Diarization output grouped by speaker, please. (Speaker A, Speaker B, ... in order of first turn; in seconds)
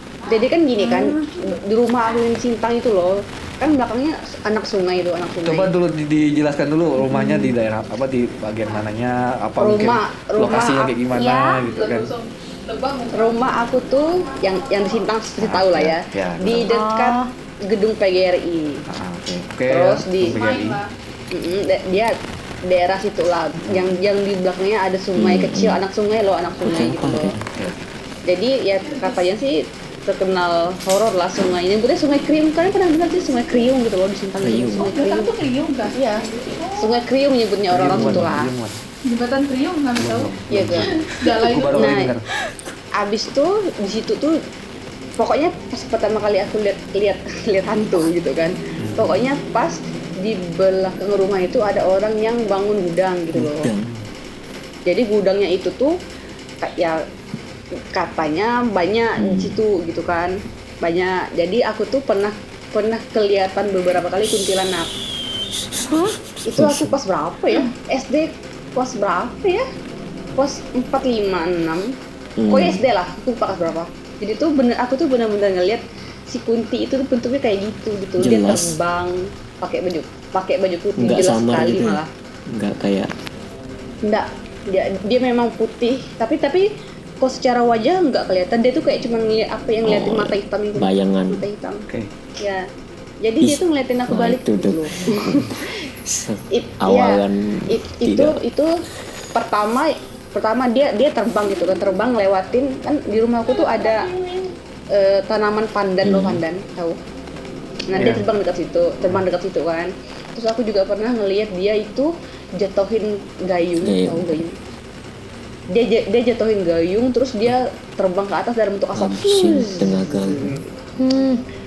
Speaker A: 0.3-5.7, 9.6-10.9, 13.1-18.8, 19.7-20.4, 21.3-22.1, 22.7-27.3, 28.3-35.3, 36.8-38.5, 40.5-40.9, 41.7-42.1, 43.0-44.4, 45.2-53.7, 54.9-56.0, 56.6-57.0, 57.9-64.9, 66.4-69.6, 70.3-71.9, 72.5-82.1, 84.0-86.7, 87.2-91.8, 92.4-92.7, 93.2-95.6, 96.5-98.7, 99.3-104.1, 104.9-107.0, 107.9-114.6, 115.7-120.5
Speaker B: 0.8-1.1, 7.0-7.5, 16.7-17.3, 65.9-66.2, 121.0-121.4
Speaker C: 5.4-12.1, 15.4-16.7, 18.9-20.8, 23.7-24.0, 27.3-27.9, 37.7-38.8, 40.0-42.3, 48.8-49.2, 108.0-108.2, 120.4-120.6
Speaker D: 11.1-13.4, 14.0-15.0, 20.3-20.9, 28.9-29.2, 34.8-37.0, 39.1-40.3, 41.1-41.9, 103.5-104.5
Speaker E: 25.1-25.8, 26.6-27.4, 34.4-34.9, 37.9-38.3, 53.3-53.9, 59.2-59.5, 66.3-66.9, 72.4-72.8, 78.2-78.7, 81.0-83.1, 89.8-91.5, 93.4-98.4, 106.0-106.4, 113.8-114.4, 118.9-120.5